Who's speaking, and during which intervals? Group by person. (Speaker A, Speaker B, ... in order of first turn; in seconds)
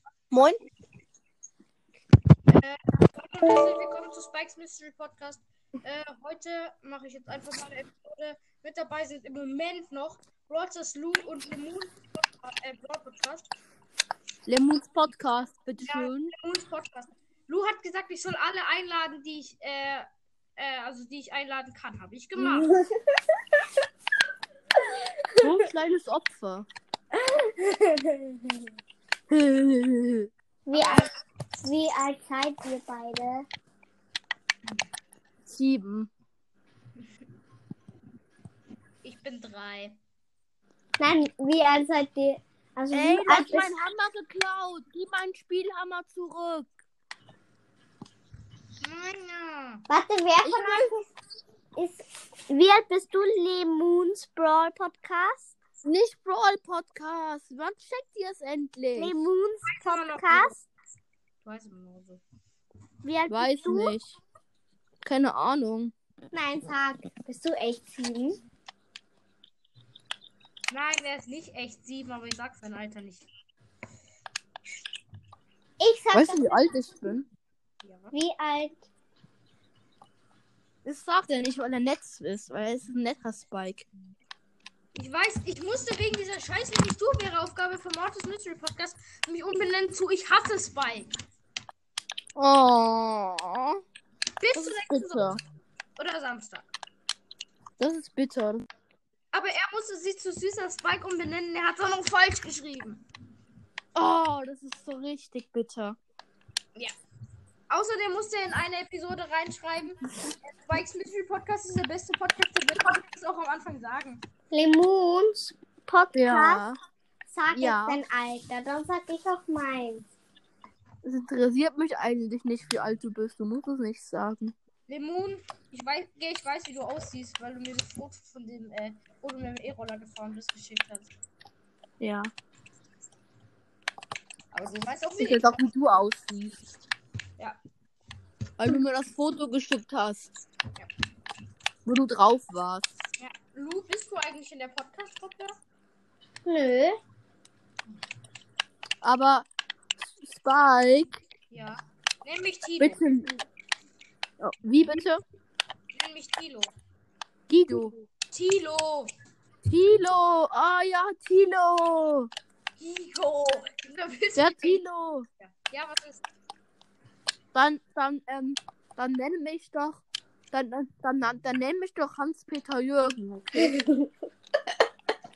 Speaker A: 0.3-0.6, 14.5-16.3, 25.4-26.7, 29.3-30.3, 35.5-36.1, 42.9-46.7, 50.4-50.9, 55.9-59.2, 63.3-64.1, 65.0-65.9, 76.1-77.3, 80.8-83.9, 92.4-93.8, 94.5-95.4, 97.8-98.7, 104.0-106.0, 116.1-116.8, 117.5-118.0, 121.0-124.5, 132.0-132.3, 135.2-136.6, 138.6-140.3, 141.9-142.9, 149.0-149.5, 150.1-151.2, 152.8-153.3, 154.4-155.2, 157.5-157.9, 159.7-162.3, 164.4-165.3, 167.5-173.8
Speaker B: 2.5-13.5, 15.9-22.7, 30.7-31.1, 39.0-40.0, 48.8-49.8, 59.7-60.7, 61.4-62.2, 70.7-73.3, 77.8-78.1, 85.0-91.1, 94.4-95.4, 96.0-96.7, 99.3-103.0, 107.7-114.2, 124.9-131.1, 134.5-135.6, 143.2-145.6, 151.5-153.1, 155.9-156.7, 158.3-159.1, 162.8-164.8, 165.4-166.2
Speaker C: 22.4-22.9, 27.2-28.4, 30.7-31.1, 31.6-33.5, 41.0-43.7, 49.9-51.1, 51.8-55.5, 59.0-60.6, 63.0-64.0, 66.3-68.4, 75.8-76.7, 78.1-78.8, 114.5-116.6, 117.3-120.0, 146.5-147.0, 173.6-174.1